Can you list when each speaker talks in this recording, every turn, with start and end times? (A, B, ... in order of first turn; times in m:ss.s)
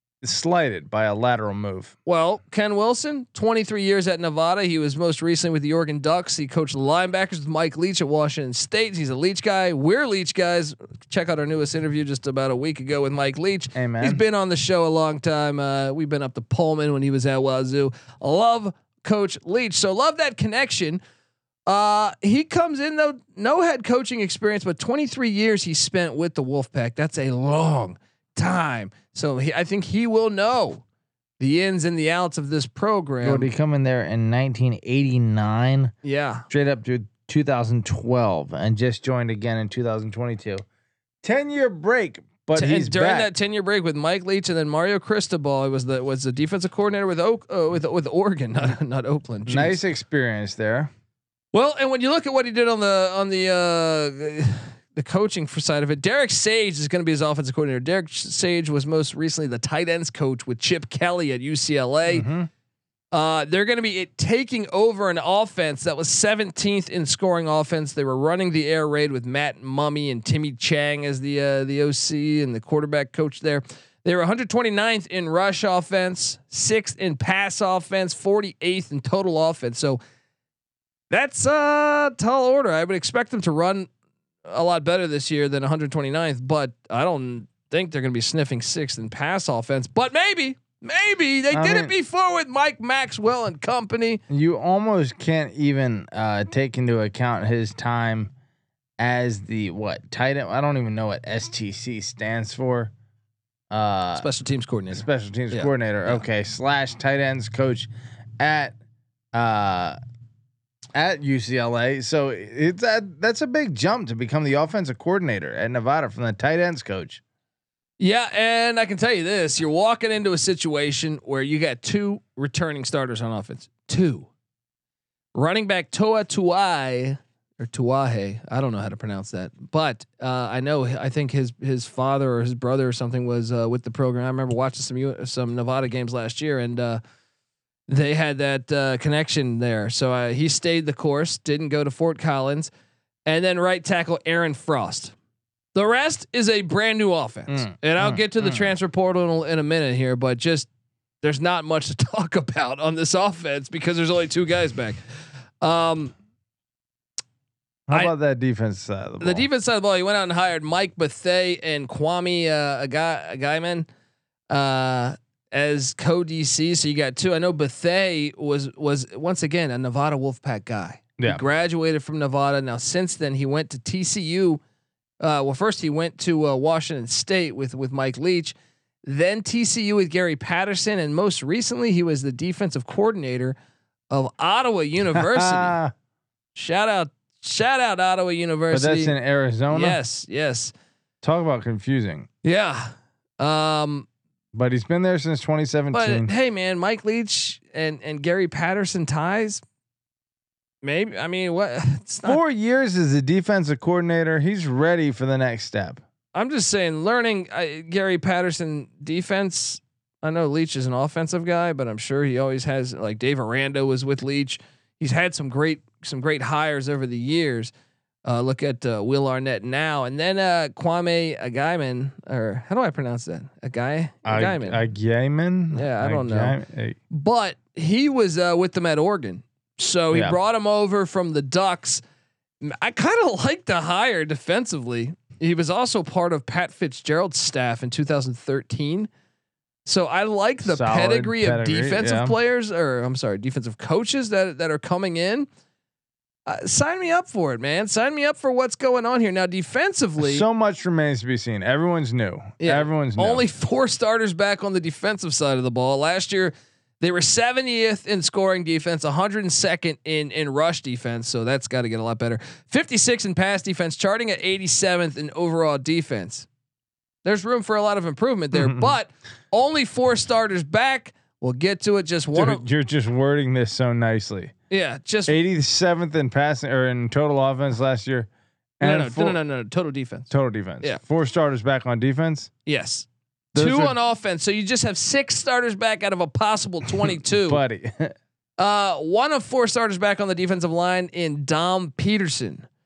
0:00.2-0:01.9 A
0:02.0-0:21.0 B
0:13.7-0:14.2 A
0:21.7-0:30.8 B
0:31.4-0:33.5 B
0:33.2-0:35.9 A
0:36.0-0:36.4 B
0:36.5-0:40.6 A
0:41.2-0:43.3 A
0:42.5-0:49.8 B
0:49.5-0:50.9 A
0:51.5-1:02.3 B
1:02.1-1:02.5 A
1:03.1-1:20.0 B
1:21.1-1:23.9 B
1:24.4-1:34.2 B
1:31.5-1:31.9 A
1:34.3-1:38.3 A
1:39.0-1:42.9 A
1:43.7-1:44.3 A
1:44.1-1:46.2 B
1:44.9-1:47.9 A
1:48.4-1:48.7 A
1:49.3-1:50.0 A
1:50.9-1:57.2 A
1:58.0-2:04.3 B
2:05.3-2:17.0 B
2:17.9-2:22.7 B
2:23.2-2:25.1 B
2:25.7-2:30.7 B
2:27.5-2:28.7 A
2:31.2-2:35.0 B
2:35.6-2:36.1 B
2:37.9-2:39.4 A
2:39.2-2:43.9 B
2:44.5-2:54.6 B
2:55.2-3:03.6 B
3:04.1-3:05.8 B
3:05.1-3:05.9 A
3:06.5-3:09.1 B
3:08.7-3:10.0 A
3:09.7-3:10.7 B
3:11.2-3:12.3 A
3:12.4-3:14.1 B
3:14.5-3:16.3 A
3:15.9-3:19.6 B
3:20.8-3:22.4 B
3:22.2-3:26.0 A
3:26.3-3:37.7 B
3:38.2-3:44.8 B
3:44.2-3:47.0 A
3:45.7-3:46.6 B
3:47.1-3:52.0 B
3:52.6-3:59.1 B
3:59.8-4:05.5 B
4:00.6-4:02.4 A
4:06.4-4:10.4 B
4:10.2-4:13.4 A
4:12.6-4:26.5 B
4:27.2-4:32.6 B
4:28.5-4:28.9 A
4:32.3-4:34.5 A
4:34.7-4:35.4 B
4:35.3-4:38.3 A
4:38.8-4:39.4 A
4:38.8-4:40.3 B
4:40.3-4:42.5 A
4:42.6-4:47.6 B
4:43.5-4:43.9 A
4:47.5-4:48.1 A
4:48.6-4:52.7 B